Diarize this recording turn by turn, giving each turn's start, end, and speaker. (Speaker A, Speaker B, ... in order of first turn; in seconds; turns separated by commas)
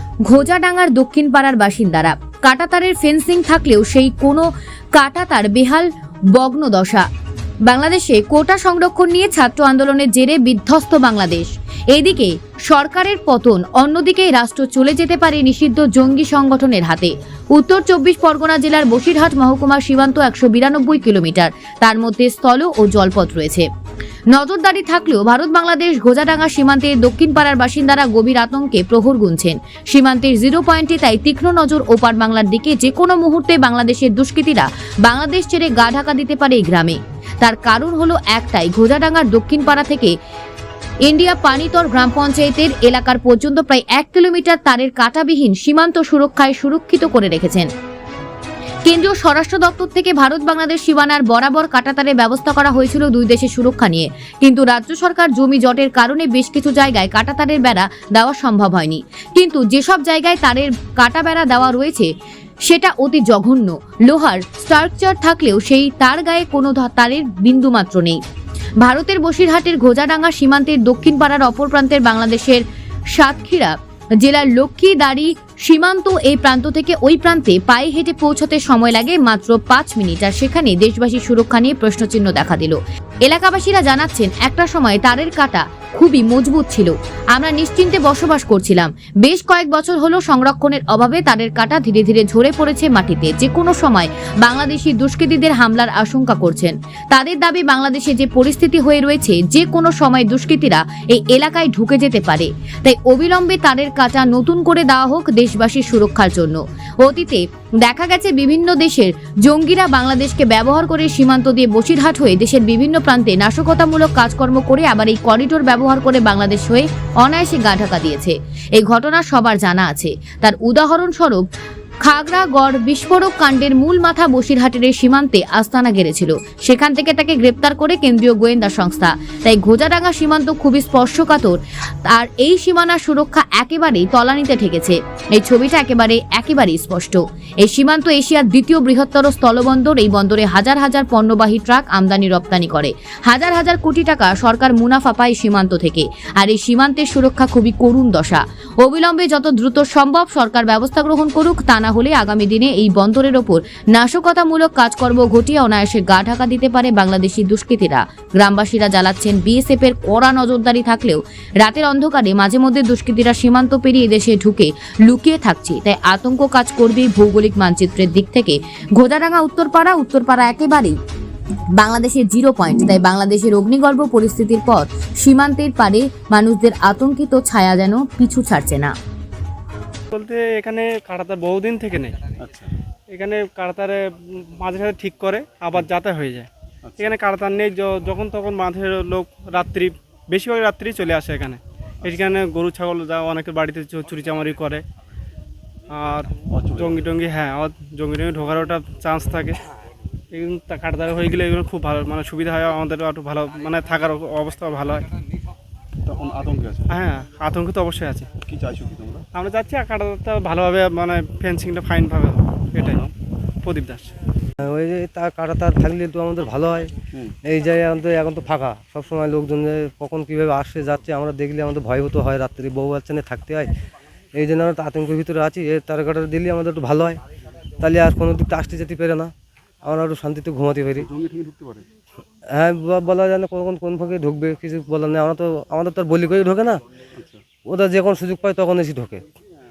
Speaker A: 0.2-7.1, Speaker A: 7.6-23.7, Speaker A: 24.3-40.1, Speaker A: 41.1-47.7, Speaker A: 48.8-62.1, Speaker A: 62.7-68.2, Speaker A: 68.8-121.5, Speaker A: 122.0-171.0, Speaker A: 171.8-178.9, Speaker B: 180.1-182.2, Speaker C: 182.4-182.7, Speaker B: 183.1-194.8, Speaker C: 186.8-187.1, Speaker C: 192.0-192.3, Speaker B: 195.9-199.6, Speaker C: 196.5-197.0, Speaker B: 200.3-205.1, Speaker C: 206.0-206.9, Speaker B: 206.9-208.3, Speaker C: 208.4-209.2, Speaker B: 209.3-213.1, Speaker C: 212.8-213.1, Speaker B: 213.6-214.1, Speaker D: 214.6-216.9, Speaker D: 217.4-223.7, Speaker D: 224.3-227.2, Speaker D: 227.8-229.3, Speaker D: 229.8-231.1, Speaker C: 231.0-231.9, Speaker D: 232.5-236.8, Speaker C: 237.1-237.4, Speaker D: 237.6-239.2